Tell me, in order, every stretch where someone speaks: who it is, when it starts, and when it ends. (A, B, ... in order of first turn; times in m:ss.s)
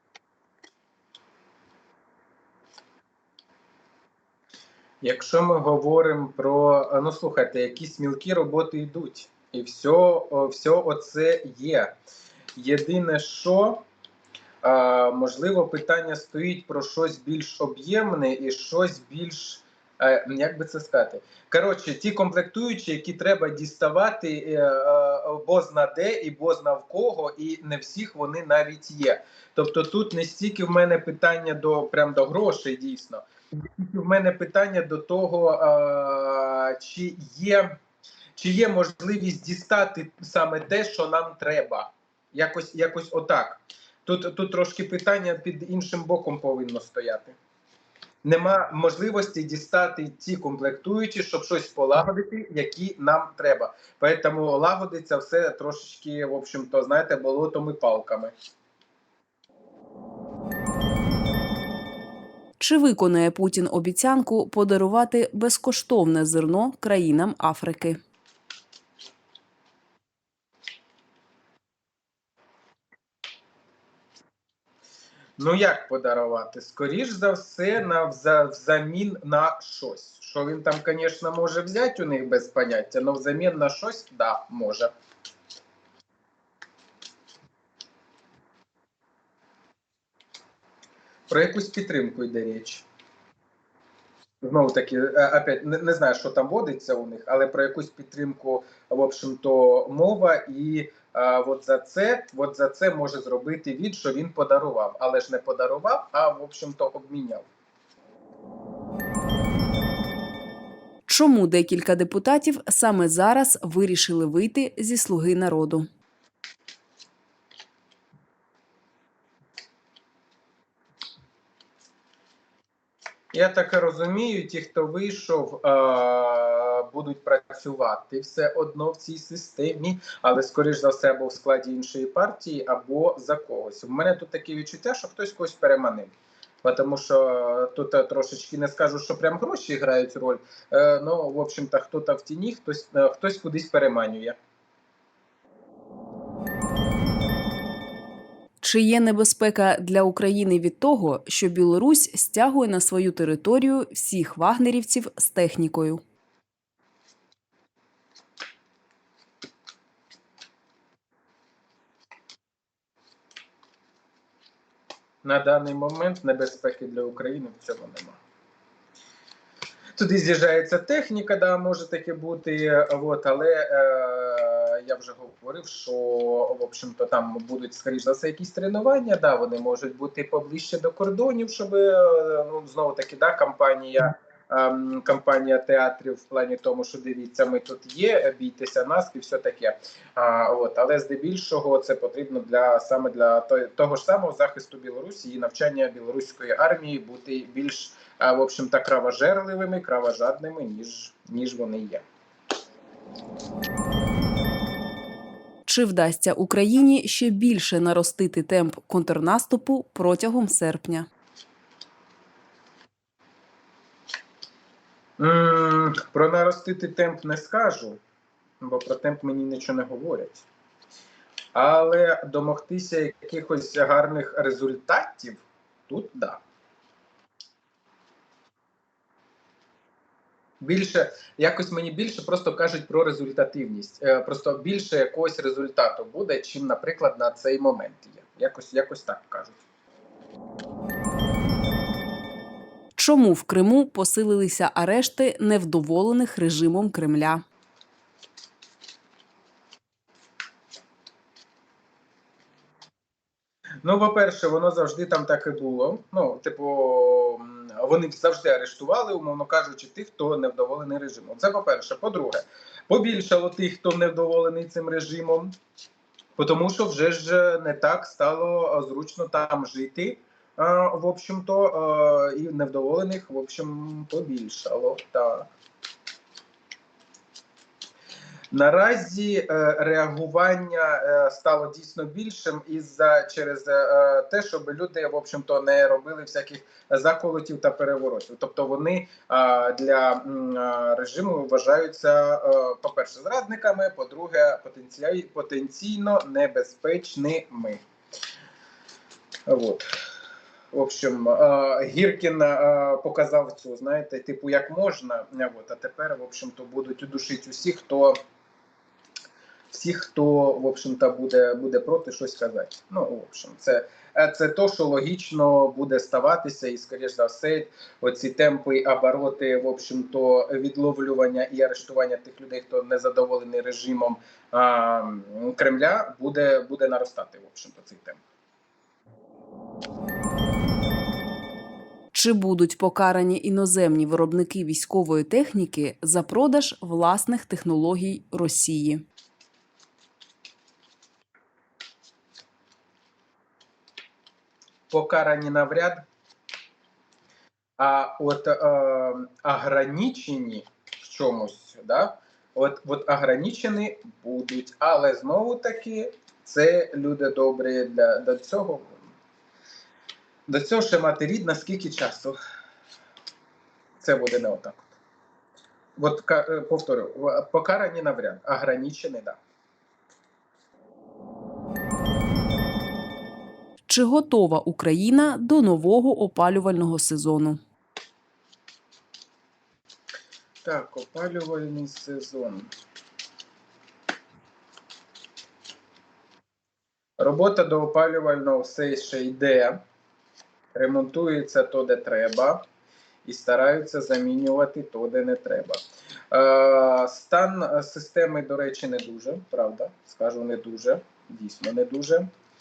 0:05.0-0:11.9 A
0:12.6-0:13.8 A
0:14.6-0:37.8 A
0:38.4-0:47.4 A
0:48.2-0:58.3 A
1:02.6-1:08.0 B
1:15.4-1:24.9 A
1:31.3-1:32.8 A
1:34.4-1:47.5 A
1:51.1-1:55.8 B
2:03.3-2:16.1 A
2:16.6-2:24.4 A
2:28.6-2:36.0 B
2:45.2-2:48.2 A
2:50.0-3:22.0 A
3:25.7-3:31.1 B
3:35.2-3:38.0 A
3:38.6-3:40.4 A
3:41.5-3:46.4 A
3:50.6-3:59.6 A
4:03.0-4:07.4 B
4:13.8-4:25.5 A
4:26.4-4:35.5 A
4:38.5-4:57.8 A
4:59.5-4:59.9 A
5:00.7-5:08.2 A
5:09.7-5:28.2 A
5:32.1-5:39.0 B
5:44.9-5:46.0 A
5:47.8-5:59.1 A
6:00.5-6:02.4 A
6:04.0-6:04.9 A
6:06.0-6:09.4 A
6:13.9-6:17.6 B
6:20.6-6:22.7 A
6:27.2-6:29.8 A
6:30.7-6:32.6 A
6:33.2-6:42.3 A